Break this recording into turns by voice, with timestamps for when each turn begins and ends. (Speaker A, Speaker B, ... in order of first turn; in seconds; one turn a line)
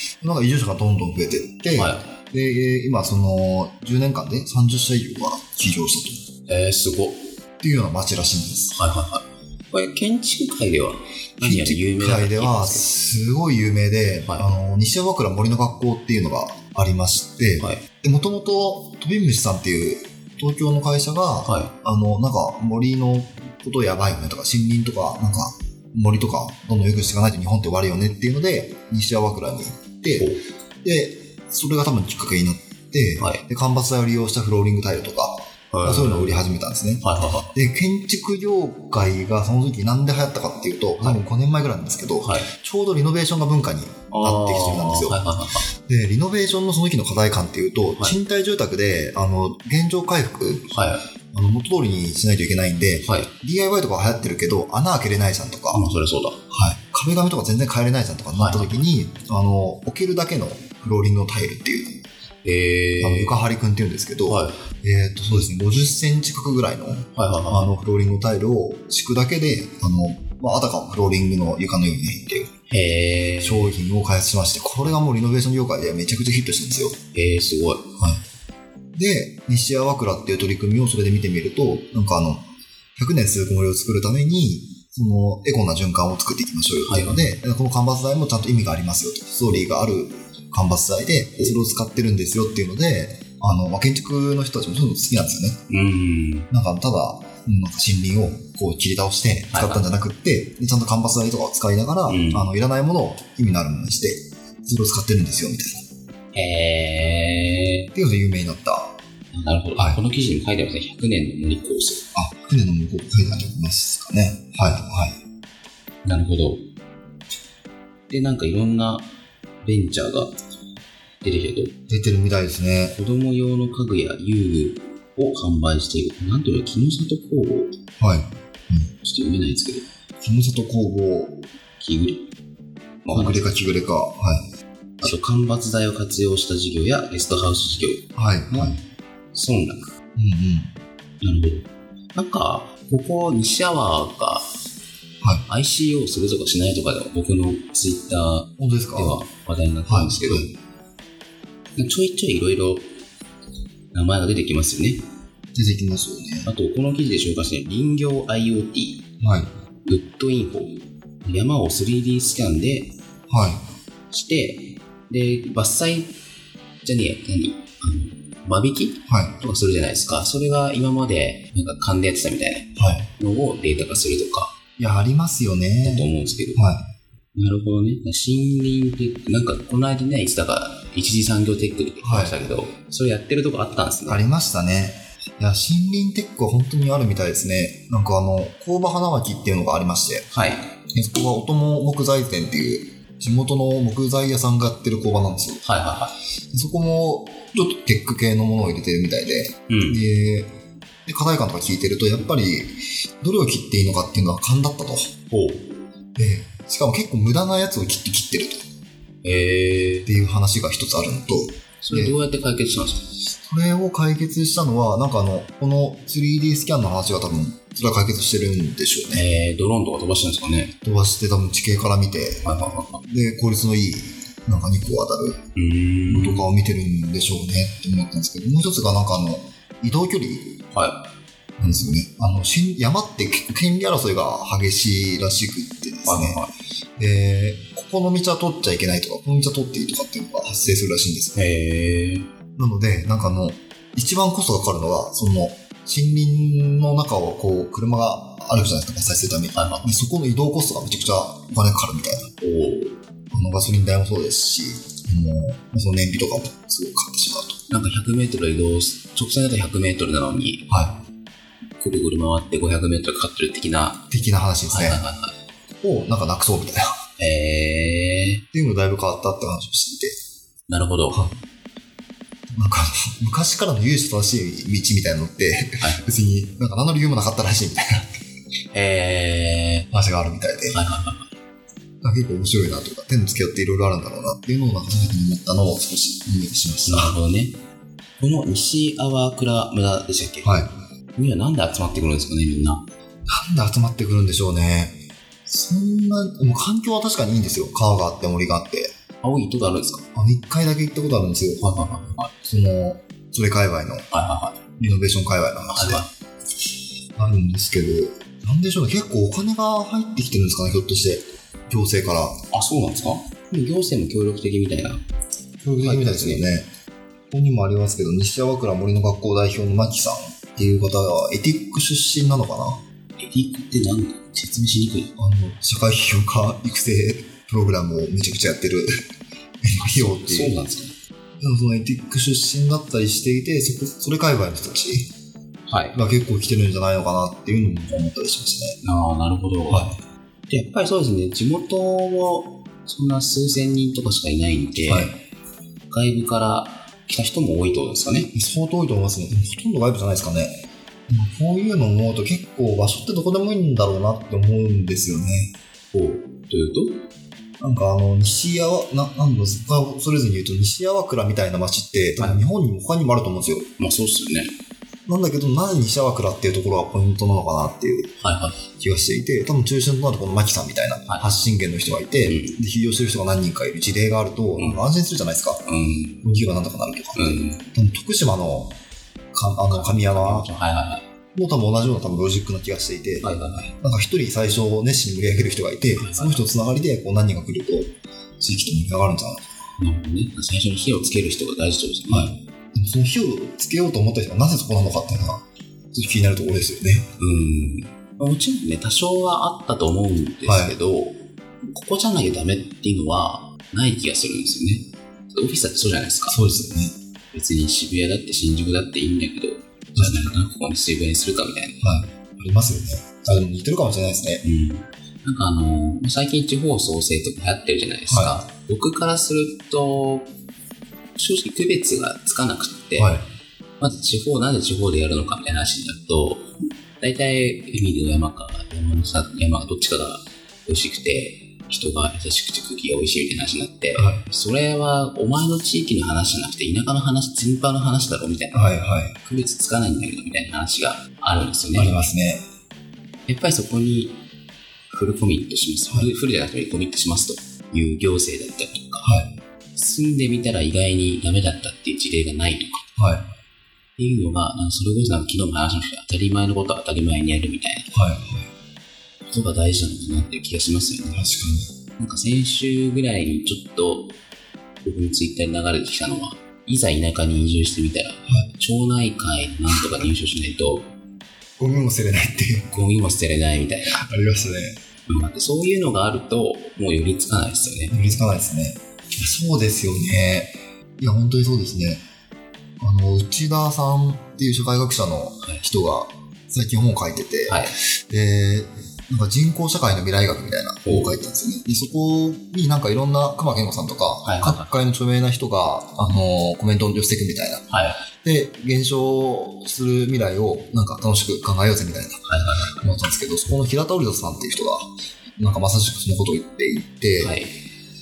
Speaker A: 0.2-6.2
Speaker B: 1.8-2.1
Speaker B: 6.5-7.3
Speaker A: 7.6-8.8
Speaker B: 8.7-12.9
Speaker A: 11.4-45.2
Speaker B: 21.4-21.7
Speaker B: 30.2-30.4
Speaker B: 35.7-36.4
Speaker B: 37.0-37.5
Speaker B: 42.2-42.5
Speaker B: 44.1-45.7
Speaker A: 45.9-50.7
Speaker B: 50.7-51.0
Speaker A: 51.3-55.8
Speaker B: 53.0-53.3
Speaker B: 55.7-56.4
Speaker A: 56.5-62.0
Speaker B: 58.4-58.8
Speaker B: 62.4-63.4
Speaker A: 63.0-72.5
Speaker B: 64.3-64.6
Speaker B: 67.2-67.7
Speaker B: 72.7-73.7
Speaker A: 73.4-77.0
Speaker B: 77.1-77.9
Speaker A: 79.0-82.5
Speaker A: 83.0-95.6
Speaker B: 86.8-87.3
Speaker B: 95.7-96.5
Speaker A: 96.5-105.8
Speaker B: 99.5-99.8
Speaker B: 102.1-102.5
Speaker B: 106.3-107.9
Speaker A: 108.0-109.0
Speaker B: 109.3-112.0
Speaker A: 109.8-110.0
Speaker A: 112.2-115.2
Speaker B: 116.0-116.7
Speaker B: 118.1-119.1
Speaker B: 119.6-120.3
Speaker B: 121.2-121.8
Speaker A: 121.9-123.0
Speaker B: 122.9-127.7
Speaker A: 128.0-128.9
Speaker B: 129.0-129.8
Speaker A: 130.2-131.4
Speaker B: 131.8-132.3
Speaker B: 133.1-133.5
Speaker A: 133.1-134.4
Speaker B: 135.0-138.8
Speaker A: 138.2-138.8
Speaker B: 139.3-139.9
Speaker A: 140.2-140.7
Speaker B: 141.2-144.5
Speaker B: 145.5-150.5
Speaker A: 148.6-149.2
Speaker A: 149.9-150.5
Speaker B: 151.8-152.8
Speaker B: 153.9-155.0
Speaker A: 155.5-156.5
Speaker B: 156.5-159.0
Speaker A: 159.2-159.5
Speaker B: 159.9-162.9
Speaker A: 163.3-163.6
Speaker B: 164.1-166.2
Speaker B: 166.8-174.5
Speaker A: 169.1-169.4
Speaker A: 172.8-173.1
Speaker A: 174.8-176.8
Speaker B: 175.8-176.7
Speaker B: 177.3-184.2
Speaker A: 182.0-182.4
Speaker A: 184.1-190.3
Speaker B: 190.3-190.7
Speaker A: 190.9-195.6
Speaker B: 195.7-196.2
Speaker A: 196.5-200.5
Speaker B: 199.7-200.0
Speaker A: 201.1-205.1
Speaker B: 205.3-205.7
Speaker A: 206.2-208.6
Speaker B: 209.2-210.1
Speaker A: 210.1-212.2
Speaker B: 211.8-213.1
Speaker A: 213.4-219.2
Speaker B: 219.1-220.7
Speaker A: 220.8-222.5
Speaker B: 222.4-223.0
Speaker A: 223.1-225.4
Speaker B: 225.6-226.5
Speaker A: 226.1-230.6
Speaker B: 230.7-231.1
Speaker A: 231.6-236.4
Speaker B: 236.1-236.5
Speaker A: 237.0-241.4
Speaker B: 241.3-242.3
Speaker A: 242.6-252.3
Speaker B: 249.5-249.9
Speaker B: 252.4-253.0
Speaker A: 253.3-257.6
Speaker B: 257.7-260.7
Speaker A: 260.7-260.9
Speaker B: 261.8-264.1
Speaker A: 264.1-265.0
Speaker B: 264.7-265.4
Speaker A: 265.8-266.9
Speaker B: 267.2-268.4
Speaker A: 268.5-270.1
Speaker B: 270.7-271.2
Speaker A: 272.5-278.2
Speaker B: 278.7-279.9
Speaker A: 279.9-280.8
Speaker B: 280.7-281.3
Speaker A: 282.0-287.2
Speaker B: 286.9-287.6
Speaker B: 288.2-292.8
Speaker A: 290.4-290.7
Speaker A: 293.3-294.9
Speaker A: 295.5-298.9
Speaker B: 299.2-300.0
Speaker A: 300.1-301.6
Speaker B: 301.6-302.4
Speaker A: 302.5-304.1
Speaker B: 304.1-304.6
Speaker A: 304.8-306.1
Speaker B: 305.7-306.1
Speaker A: 307.2-312.4
Speaker B: 312.5-315.0
Speaker A: 315.6-316.7
Speaker B: 315.8-316.5
Speaker A: 317.3-322.8
Speaker B: 323.2-325.1
Speaker A: 325.2-328.9
Speaker A: 329.6-330.6
Speaker B: 329.9-330.9
Speaker A: 331.4-335.1
Speaker B: 335.7-336.0
Speaker A: 335.9-338.8
Speaker B: 338.8-339.9
Speaker B: 340.5-345.2
Speaker A: 344.9-345.1
Speaker B: 345.9-348.3
Speaker A: 348.3-350.5
Speaker A: 351.1-355.5
Speaker B: 355.9-357.0
Speaker A: 357.6-363.7
Speaker B: 362.2-362.4
Speaker B: 363.8-364.5
Speaker A: 365.1-368.1
Speaker B: 368.2-368.6
Speaker A: 368.8-375.6
Speaker B: 372.2-372.6
Speaker B: 375.7-376.2
Speaker A: 376.2-378.8
Speaker B: 377.1-377.7
Speaker A: 379.3-380.5
Speaker B: 379.7-381.1
Speaker A: 381.4-389.5
Speaker B: 383.2-383.7
Speaker B: 385.9-386.5
Speaker B: 389.8-392.3
Speaker A: 392.1-397.1
Speaker B: 397.2-406.6
Speaker A: 400.4-400.8
Speaker A: 406.3-406.9
Speaker B: 407.3-411.9
Speaker A: 410.0-410.3
Speaker A: 411.8-414.4
Speaker B: 414.4-420.3
Speaker A: 418.1-418.4
Speaker B: 421.2-423.1
Speaker A: 423.0-423.2
Speaker B: 423.8-442.0
Speaker A: 434.0-434.2
Speaker A: 438.5-439.1
Speaker A: 441.8-442.4
Speaker B: 443.3-444.2
Speaker B: 444.9-449.1
Speaker A: 449.0-449.3
Speaker B: 449.8-452.9
Speaker A: 453.0-453.2
Speaker B: 454.0-457.9
Speaker A: 457.9-458.5
Speaker B: 459.3-461.3
Speaker A: 461.1-461.7
Speaker B: 462.0-464.1
Speaker B: 464.8-470.9
Speaker A: 469.7-470.1
Speaker A: 471.6-472.7
Speaker B: 472.7-474.0
Speaker A: 473.9-474.8
Speaker B: 475.1-477.9
Speaker A: 477.9-482.0
Speaker A: 482.8-497.6
Speaker B: 487.5-487.7
Speaker B: 490.9-491.1
Speaker B: 494.2-494.8
Speaker B: 497.7-498.0
Speaker A: 498.2-507.4
Speaker B: 502.3-502.9
Speaker B: 507.2-507.6